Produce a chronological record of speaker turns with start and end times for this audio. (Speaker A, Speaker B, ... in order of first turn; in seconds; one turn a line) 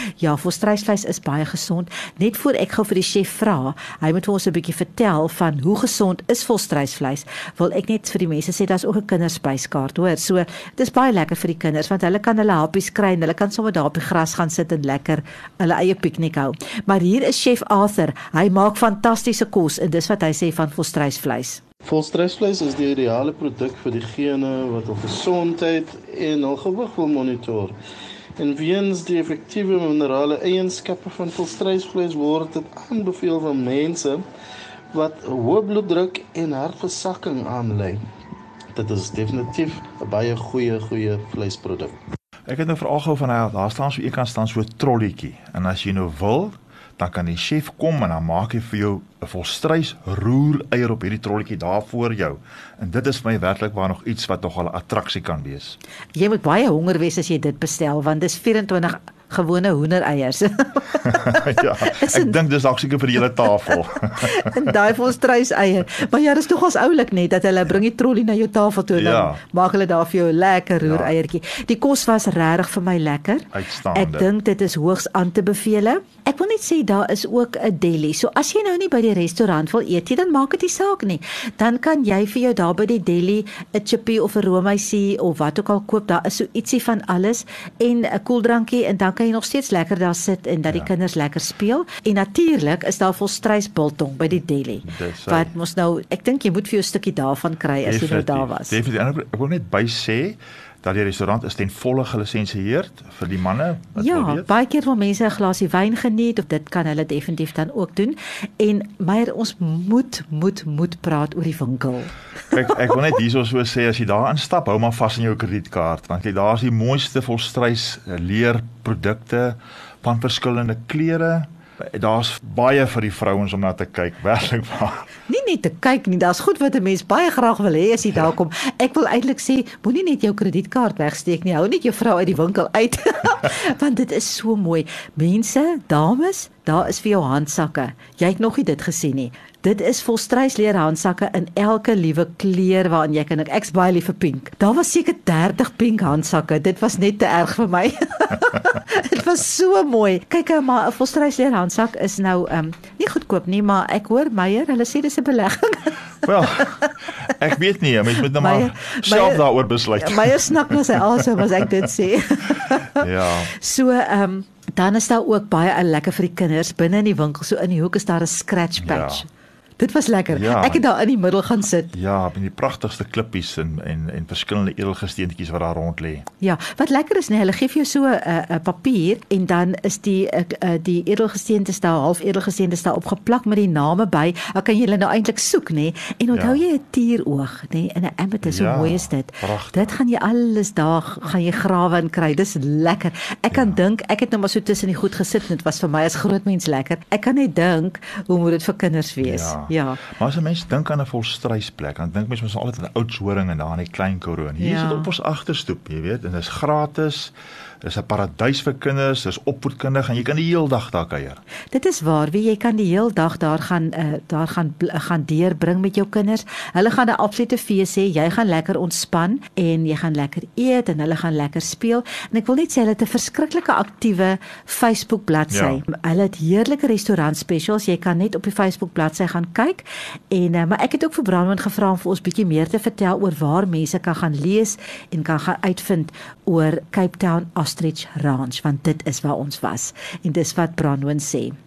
Speaker A: 0.2-21.6
Speaker B: 21.9-27.8
Speaker B: 28.4-34.2
Speaker B: 34.9-38.0
Speaker B: 38.7-42.0
Speaker C: 42.5-55.8
Speaker A: 56.1-62.4
Speaker C: 61.1-64.5
Speaker A: 63.7-98.8
Speaker C: 68.9-69.4
Speaker C: 70.8-71.1
Speaker C: 73.5-74.3
Speaker C: 94.8-95.5
Speaker C: 97.8-104.5
Speaker A: 104.0-112.1
Speaker C: 112.5-125.1
Speaker A: 125.3-156.1
Speaker C: 156.2-161.0
Speaker A: 158.2-169.3
Speaker C: 163.0-163.5
Speaker C: 168.8-169.2
Speaker A: 169.8-171.9
Speaker C: 170.3-170.8
Speaker C: 171.9-176.2
Speaker A: 176.4-200.0
Speaker C: 186.3-186.6
Speaker C: 188.4-189.9
Speaker C: 193.5-193.8
Speaker C: 199.2-211.4
Speaker A: 204.6-205.1
Speaker A: 211.7-241.6
Speaker C: 225.5-225.8